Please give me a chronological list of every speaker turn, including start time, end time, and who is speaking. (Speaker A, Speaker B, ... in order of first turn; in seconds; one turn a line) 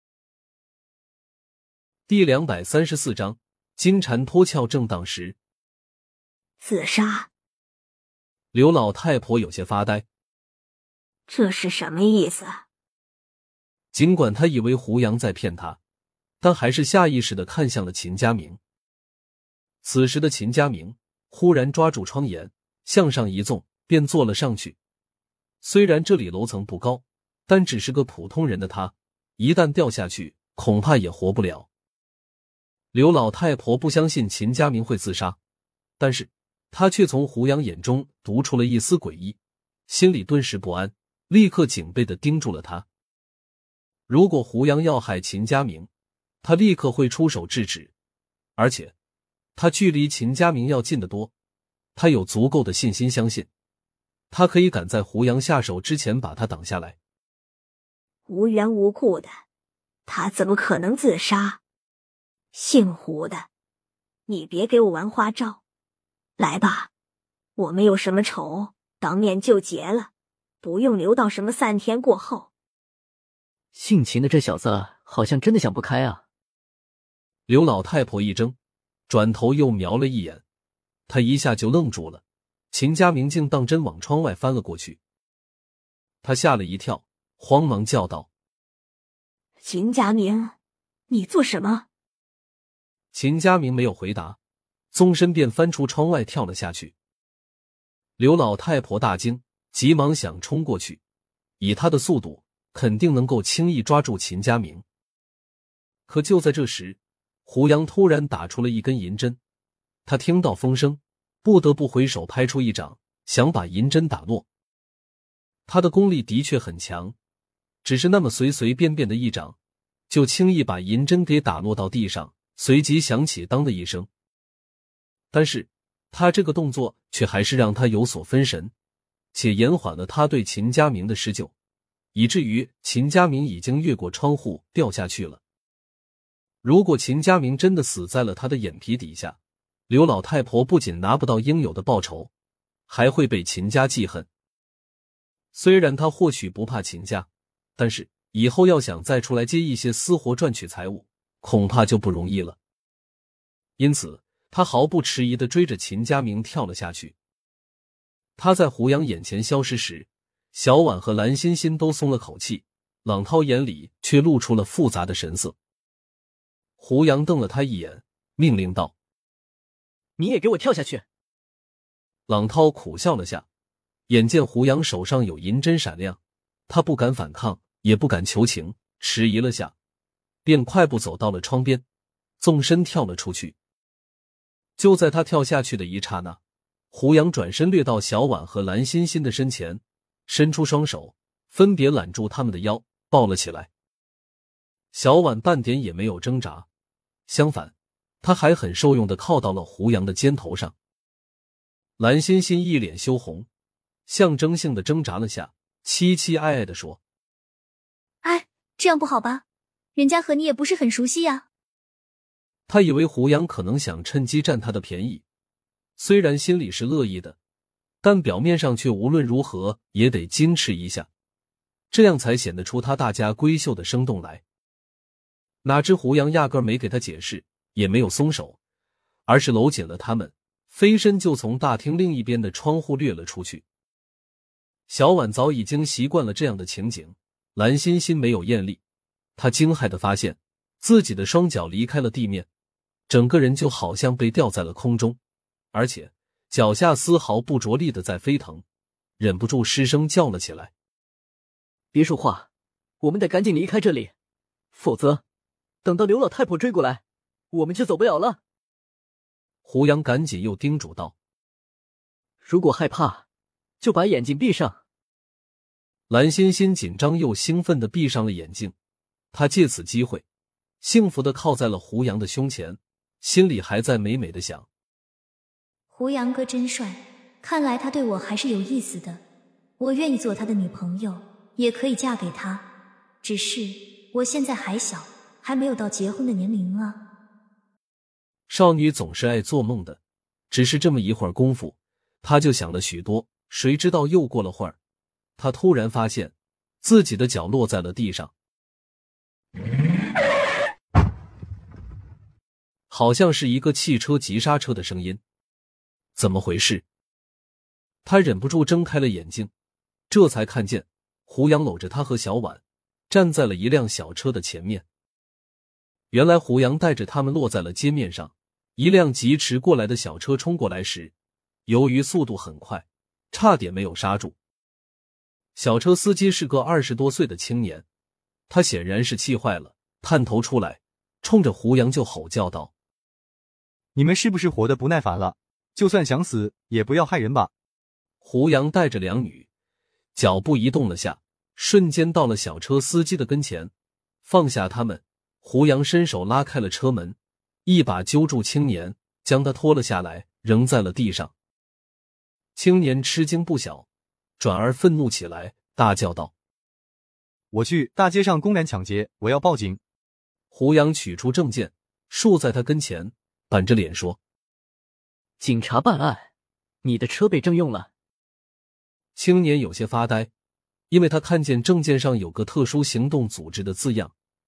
Speaker A: 2.1-5.3
Speaker B: 6.6-7.3
Speaker A: 8.5-10.1
Speaker B: 11.3-12.6
Speaker A: 13.9-15.8
Speaker A: 16.4-18.6
Speaker A: 19.8-24.8
Speaker A: 25.6-31.7
Speaker A: 32.9-35.4
Speaker A: 36.0-39.4
Speaker A: 39.9-42.9
Speaker A: 44.1-45.9
Speaker A: 46.4-47.9
Speaker A: 48.6-48.9
Speaker A: 49.6-51.3
Speaker A: 52.0-53.5
Speaker A: 54.3-57.0
Speaker B: 58.3-59.4
Speaker B: 60.1-61.6
Speaker B: 62.5-63.5
Speaker B: 64.3-65.6
Speaker B: 66.4-66.9
Speaker B: 67.6-70.1
Speaker B: 70.6-72.5
Speaker C: 73.7-76.2
Speaker A: 77.5-78.5
Speaker A: 79.1-80.4
Speaker A: 81.1-82.2
Speaker A: 82.7-85.0
Speaker A: 86.2-88.3
Speaker B: 89.6-90.6
Speaker B: 91.1-91.9
Speaker A: 93.1-94.4
Speaker A: 94.9-96.9
Speaker A: 98.2-101.0
Speaker A: 101.6-104.8
Speaker A: 106.1-109.4
Speaker A: 110.1-114.5
Speaker A: 115.7-117.2
Speaker A: 117.8-119.6
Speaker A: 120.1-124.1
Speaker A: 125.3-128.7
Speaker A: 129.3-131.5
Speaker A: 132.1-135.4
Speaker A: 136.6-139.4
Speaker A: 139.9-142.3
Speaker A: 142.9-144.3
Speaker A: 145.5-152.6
Speaker A: 153.8-157.1
Speaker A: 158.4-165.5
Speaker A: 166.8-168.9
Speaker C: 170.2-171.1
Speaker A: 172.3-173.4
Speaker A: 174.1-176.2
Speaker A: 176.7-179.7
Speaker A: 180.4-181.8
Speaker A: 182.4-183.6
Speaker A: 184.8-186.4
Speaker A: 186.9-193.7
Speaker A: 194.9-196.7
Speaker A: 197.3-200.7
Speaker A: 202.0-203.5
Speaker A: 204.1-207.0
Speaker D: 208.2-209.4
Speaker D: 209.9-211.4
Speaker A: 212.7-215.2
Speaker A: 216.0-217.4
Speaker A: 218.0-221.1
Speaker A: 221.9-224.4
Speaker A: 225.6-228.6
Speaker A: 229.3-233.6
Speaker A: 234.9-238.8
Speaker A: 239.4-242.5
Speaker A: 243.1-245.2
Speaker A: 245.7-248.6
Speaker A: 249.2-250.7
Speaker C: 251.9-252.5
Speaker C: 253.0-254.1
Speaker C: 254.7-255.2
Speaker C: 255.8-258.4
Speaker A: 259.6-261.1
Speaker C: 262.4-263.2
Speaker C: 263.8-264.8
Speaker A: 266.1-268.7
Speaker A: 269.3-270.2
Speaker A: 270.8-274.7
Speaker D: 275.9-279.2
Speaker D: 279.8-282.6
Speaker D: 283.2-287.0
Speaker A: 288.5-290.0
Speaker A: 290.5-294.8
Speaker A: 295.4-298.3
Speaker A: 302.9-305.2
Speaker A: 306.2-306.8
Speaker A: 308.1-309.5
Speaker A: 310.1-314.8
Speaker A: 316.1-321.1
Speaker A: 321.7-324.4
Speaker A: 325.6-327.8
Speaker A: 328.5-332.7
Speaker E: 333.9-337.5
Speaker A: 338.2-339.5
Speaker A: 340.1-343.7
Speaker A: 344.2-351.3
Speaker A: 352.6-353.9
Speaker A: 354.4-356.3
Speaker E: 357.5-359.8
Speaker A: 360.5-364.2
Speaker C: 365.4-366.3
Speaker C: 366.8-367.9
Speaker A: 369.2-370.3
Speaker A: 370.9-374.1